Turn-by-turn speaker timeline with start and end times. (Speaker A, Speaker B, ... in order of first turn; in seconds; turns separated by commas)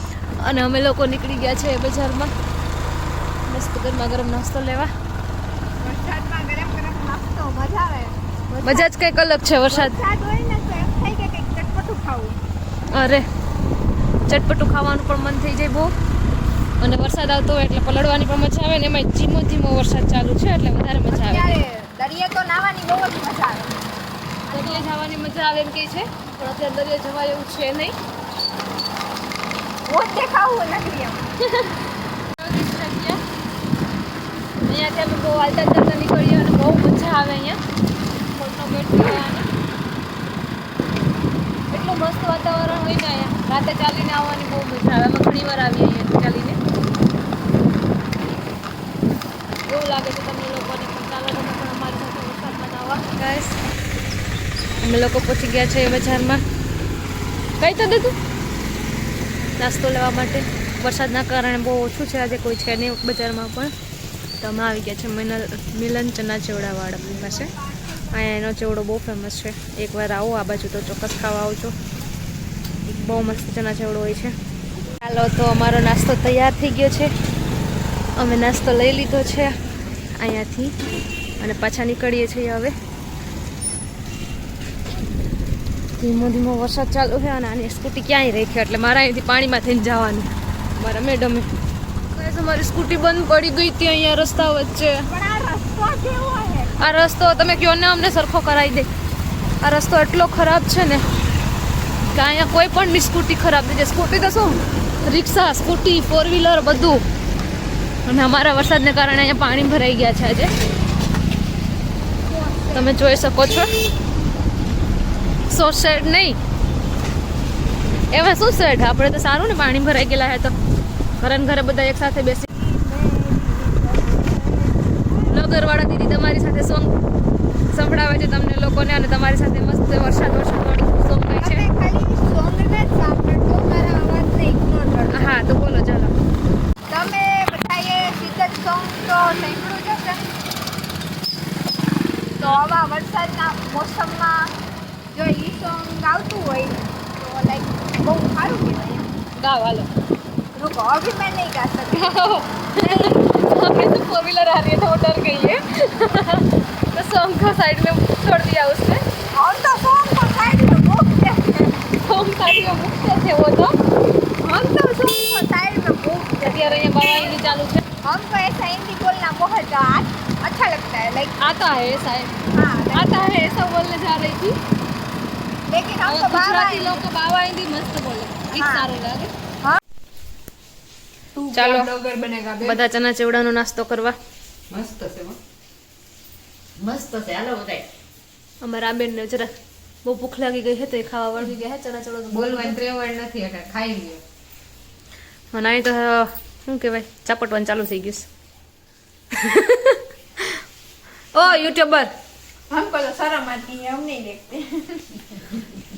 Speaker A: 0.4-2.3, Speaker A: 3.5-4.9, Speaker B: 5.8-8.9, Speaker A: 8.6-9.9, Speaker B: 9.7-12.4, Speaker A: 12.9-13.2, Speaker A: 14.3-15.9, Speaker A: 16.8-21.6, Speaker B: 21.1-23.8, Speaker B: 24.5-24.9, Speaker A: 24.5-27.9, Speaker B: 29.9-31.3, Speaker A: 32.4-33.2, Speaker A: 34.7-37.6, Speaker A: 38.3-39.5, Speaker A: 41.7-46.6, Speaker A: 49.7-53.6, Speaker A: 54.8-56.4, Speaker A: 57.6-58.2, Speaker A: 59.6-63.7, Speaker A: 64.4-67.5, Speaker B: 67.0-68.3, Speaker A: 68.1-71.7, Speaker A: 72.9-74.3, Speaker A: 75.0-77.1, Speaker A: 78.2-79.6, Speaker A: 80.2-80.7, Speaker A: 81.4-82.8, Speaker A: 86.0-91.5, Speaker A: 92.2-95.1, Speaker B: 95.1-96.7, Speaker A: 96.8-98.9, Speaker A: 99.6-101.0, Speaker A: 102.1-107.0, Speaker A: 108.0-110.5, Speaker B: 112.2-113.0, Speaker A: 112.7-113.7, Speaker A: 115.5-116.4, Speaker A: 118.1-120.5, Speaker A: 121.2-122.5, Speaker B: 122.5-125.4, Speaker A: 125.3-126.9, Speaker A: 127.7-131.7, Speaker B: 131.4-135.4, Speaker A: 135.1-136.1, Speaker B: 136.9-140.3, Speaker B: 142.4-144.5, Speaker B: 145.1-149.1, Speaker A: 149.4-149.9, Speaker B: 150.6-153.8, Speaker A: 151.9-159.0, Speaker B: 159.4-161.8, Speaker A: 162.0-163.7, Speaker B: 164.4-171.4, Speaker A: 166.4-167.8, Speaker A: 171.4-172.3, Speaker B: 172.5-173.6, Speaker A: 172.9-174.6, Speaker B: 175.7-177.0, Speaker A: 176.0-179.3, Speaker B: 178.5-178.9, Speaker A: 181.5-181.9, Speaker C: 181.6-182.8, Speaker A: 182.6-184.2, Speaker C: 184.7-185.4, Speaker C: 186.8-187.9, Speaker A: 188.6-189.5, Speaker A: 190.1-192.8, Speaker C: 192.3-194.2, Speaker A: 195.5-198.3, Speaker A: 199.3-200.0, Speaker A: 201.3-202.1, Speaker B: 202.7-205.2